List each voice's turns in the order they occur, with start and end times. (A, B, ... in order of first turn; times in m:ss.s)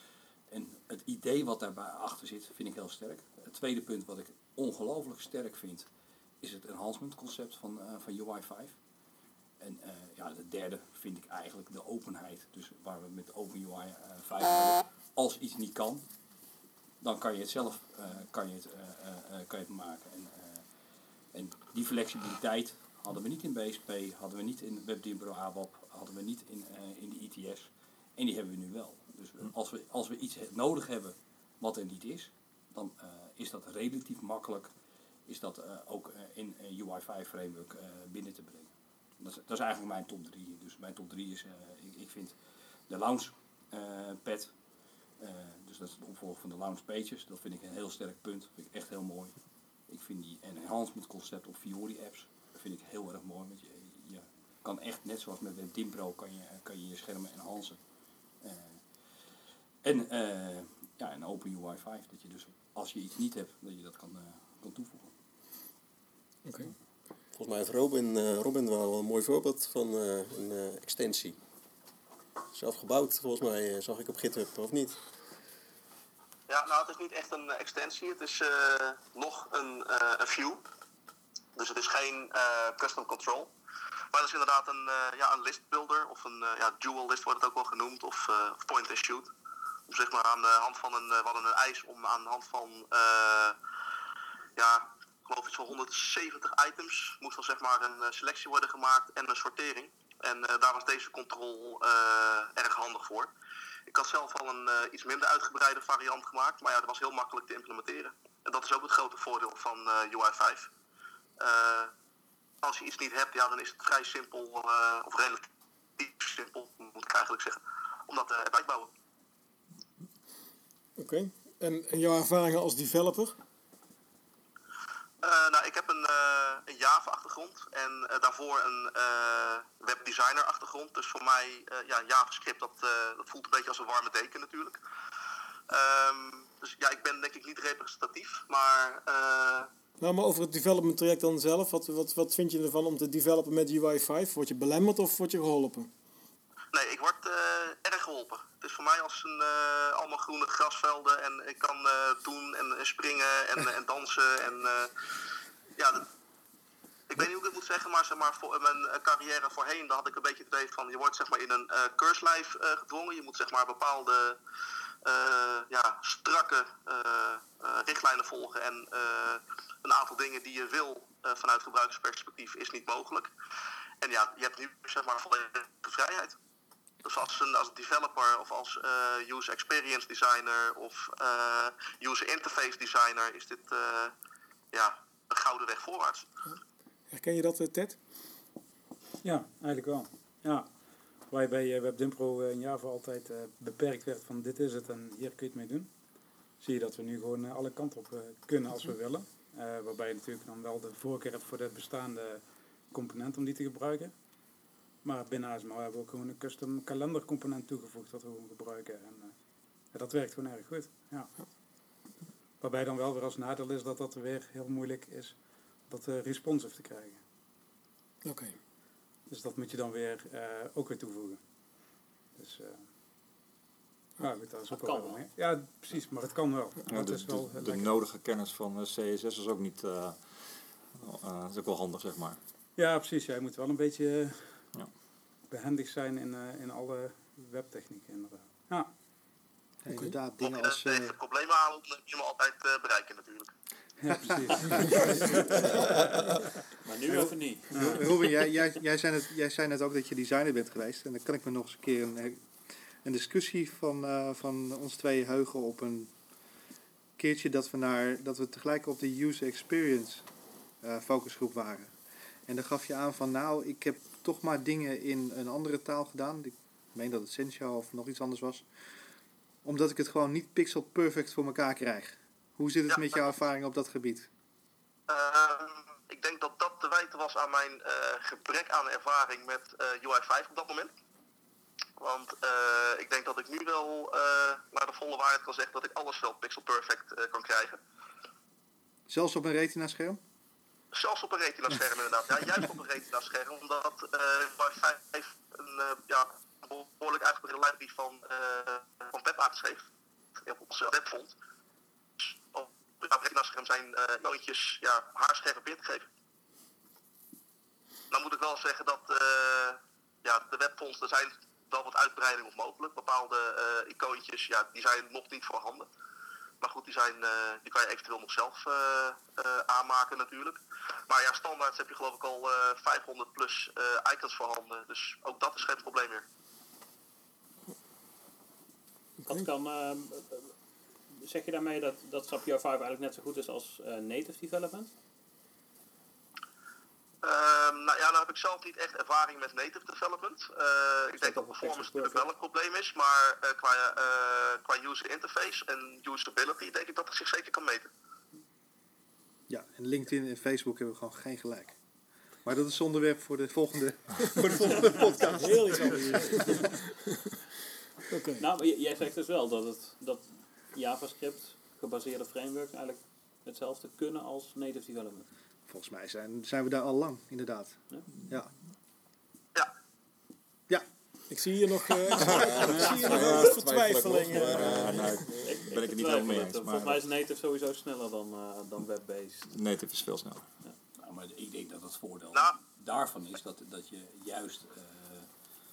0:00.5-0:05.9 A
0:06.4-0:08.8 A
0:09.6-0:16.1 A
0:17.0-0:20.6 A
0:21.3-0:34.7 A
0:35.3-0:42.4 A
0:42.9-0:44.5 A
0:45.2-0:49.4 A
0:49.9-0:57.8 A
0:58.4-0:58.8 A
0:59.8-1:05.1 A
1:06.4-1:06.7 B
1:07.3-1:11.4 C
1:12.5-1:15.0 C
1:16.5-1:20.6 D
1:21.6-1:23.5 D
1:24.1-1:29.3 D
1:29.9-1:33.6 D
1:34.6-1:43.3 D
1:43.9-1:50.7 D
1:51.4-1:51.9 D
1:52.6-1:55.5 D
1:56.0-1:58.9 D
2:01.0-2:03.4 B
2:05.2-2:14.8 D
2:15.7-2:19.7 D
2:20.0-2:25.9 B
2:26.7-2:34.9 D
2:35.8-2:36.1 D
2:37.1-2:44.4 D
2:45.0-2:53.3 D
2:54.0-2:56.4 D
2:57.0-3:04.1 D
3:04.7-3:06.3 D
3:07.1-3:08.0 B
3:09.2-3:15.9 E
3:16.6-3:24.2 E
3:25.0-3:29.4 E
3:29.9-3:31.3 E
3:32.6-3:37.2 E
3:38.2-3:38.6 B
3:39.3-3:41.4 E
3:42.4-3:42.9 E
3:44.2-3:48.0 E
3:44.7-3:45.2 F
3:46.9-3:52.4 G
3:52.8-3:54.7 E
3:55.5-3:58.9 E
3:59.8-4:01.2 H
3:59.9-4:00.2 B
4:00.4-4:03.5 D
4:04.0-4:04.9 E
4:04.8-4:06.2 F
4:06.8-4:08.7 F
4:07.1-4:12.5 H
4:07.7-4:08.0 E
4:13.0-4:16.1 H
4:17.2-4:20.3 H
4:20.8-4:21.9 H
4:22.5-4:28.6 H
4:29.6-4:34.3 H
4:32.9-4:33.3 D
4:35.1-4:40.9 D
4:42.0-4:47.8 D
4:49.1-4:50.2 H
4:50.9-4:59.9 D
5:00.4-5:01.4 D
5:02.2-5:06.1 D
5:08.1-5:15.9 D
5:16.6-5:26.2 D
5:29.3-5:30.5 F
5:31.2-5:34.9 F
5:37.2-5:47.9 D
5:41.2-5:42.3 F
5:49.5-5:51.8 H
5:52.4-5:56.7 H
5:54.8-5:55.2 F
5:55.3-5:57.2 B
5:58.1-5:58.5 B
5:58.4-6:05.3 F
6:05.7-6:08.5 H
6:11.3-6:15.4 B
6:12.1-6:13.4 F
6:12.4-6:13.6 G
6:13.0-6:15.2 C
6:14.4-6:17.1 G
6:15.3-6:19.6 F
6:19.5-6:20.4 G
6:21.0-6:25.3 A